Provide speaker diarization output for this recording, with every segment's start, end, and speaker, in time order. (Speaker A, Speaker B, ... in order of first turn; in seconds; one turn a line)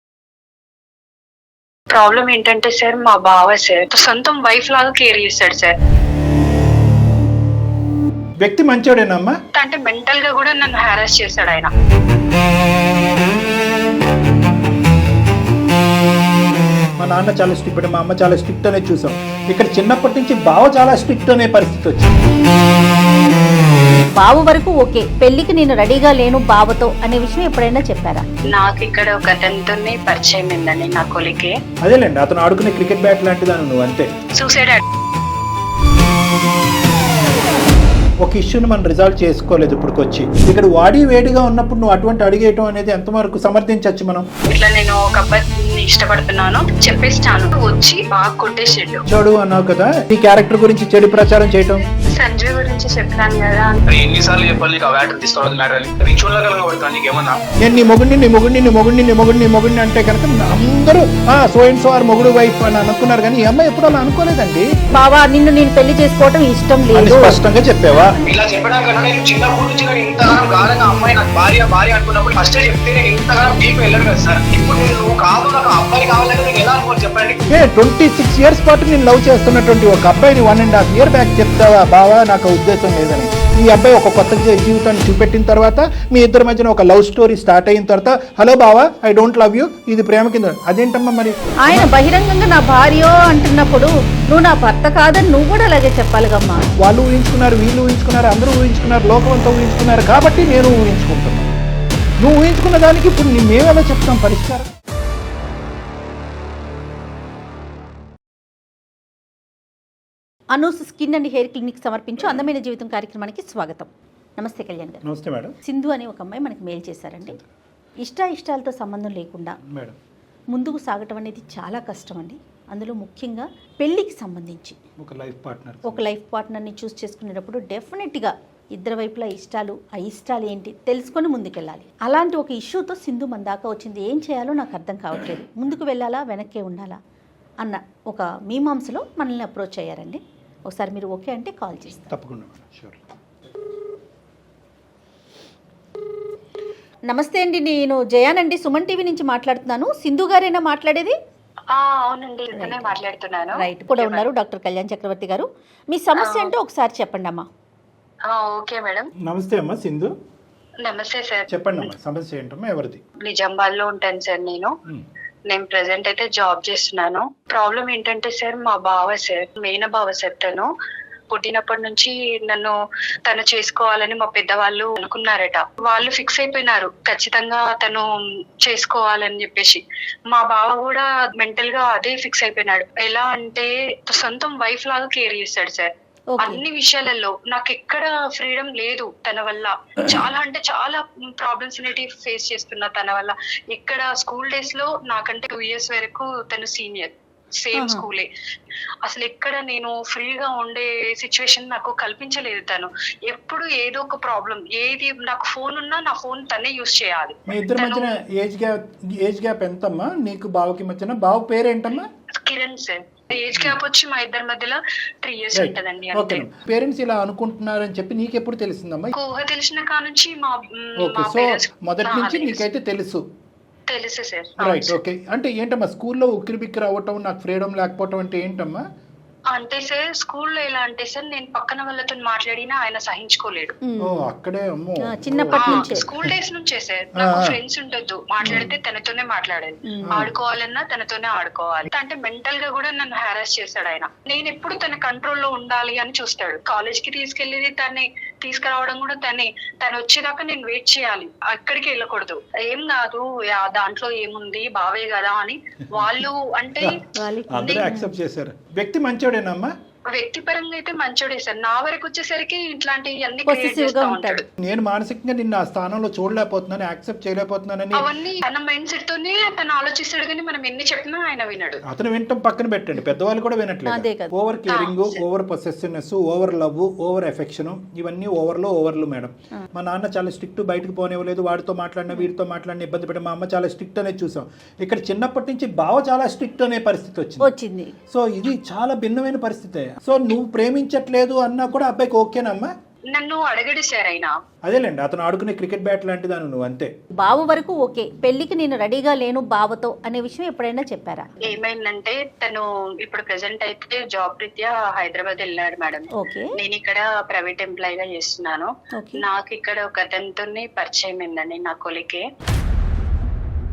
Speaker A: 1.9-5.7
Speaker B: 8.4-9.3
Speaker A: 9.6-11.7
Speaker B: 17.0-22.1
Speaker C: 24.2-28.2
Speaker A: 28.5-31.6
Speaker B: 31.8-34.1
Speaker A: 34.4-34.8
Speaker B: 38.2-44.3
Speaker A: 44.5-49.0
Speaker B: 49.1-51.9
Speaker A: 52.1-53.8
Speaker D: 53.9-57.4
Speaker B: 57.6-64.7
Speaker C: 64.9-67.4
Speaker B: 66.9-68.2
Speaker D: 68.2-77.4
Speaker B: 77.5-91.9
Speaker C: 91.7-96.7
Speaker B: 96.8-101.5
Speaker B: 102.2-104.7
Speaker C: 110.5-115.0
Speaker B: 115.0-115.6
Speaker C: 115.7-117.4
Speaker C: 118.0-119.6
Speaker B: 119.7-120.0
Speaker C: 120.5-124.8
Speaker B: 125.0-126.0
Speaker C: 125.9-137.0
Speaker C: 137.6-142.1
Speaker B: 142.1-143.0
Speaker C: 147.1-151.2
Speaker A: 151.7-154.3
Speaker C: 152.6-152.9
Speaker C: 153.6-157.5
Speaker A: 156.2-156.5
Speaker A: 158.3-159.1
Speaker B: 159.2-160.1
Speaker A: 160.8-161.9
Speaker B: 161.5-163.0
Speaker A: 163.2-164.8
Speaker A: 165.5-170.7
Speaker A: 171.3-178.1
Speaker A: 178.6-198.3
Speaker C: 197.7-198.0
Speaker A: 199.0-208.1
Speaker B: 207.5-212.1
Speaker A: 212.4-216.4
Speaker B: 215.5-219.1
Speaker A: 219.1-222.6
Speaker B: 221.0-223.2
Speaker A: 223.9-225.0
Speaker B: 224.6-228.8
Speaker A: 229.5-233.8
Speaker C: 233.8-234.3
Speaker B: 234.0-236.3
Speaker C: 235.0-236.1
Speaker A: 235.6-257.0
Speaker B: 237.2-237.6
Speaker B: 238.4-238.7
Speaker C: 239.9-240.2
Speaker B: 240.1-240.3
Speaker C: 257.1-258.1
Speaker B: 257.5-259.7
Speaker A: 260.1-264.4
Speaker C: 263.5-264.4
Speaker B: 264.6-268.1
Speaker A: 267.9-271.8
Speaker B: 271.9-287.5
Speaker C: 273.9-274.3
Speaker A: 274.7-275.2
Speaker C: 287.4-287.9
Speaker B: 288.1-292.7
Speaker A: 293.1-294.4
Speaker B: 294.6-296.9
Speaker C: 297.2-301.3
Speaker A: 301.4-312.2
Speaker C: 306.1-306.5
Speaker C: 308.9-309.2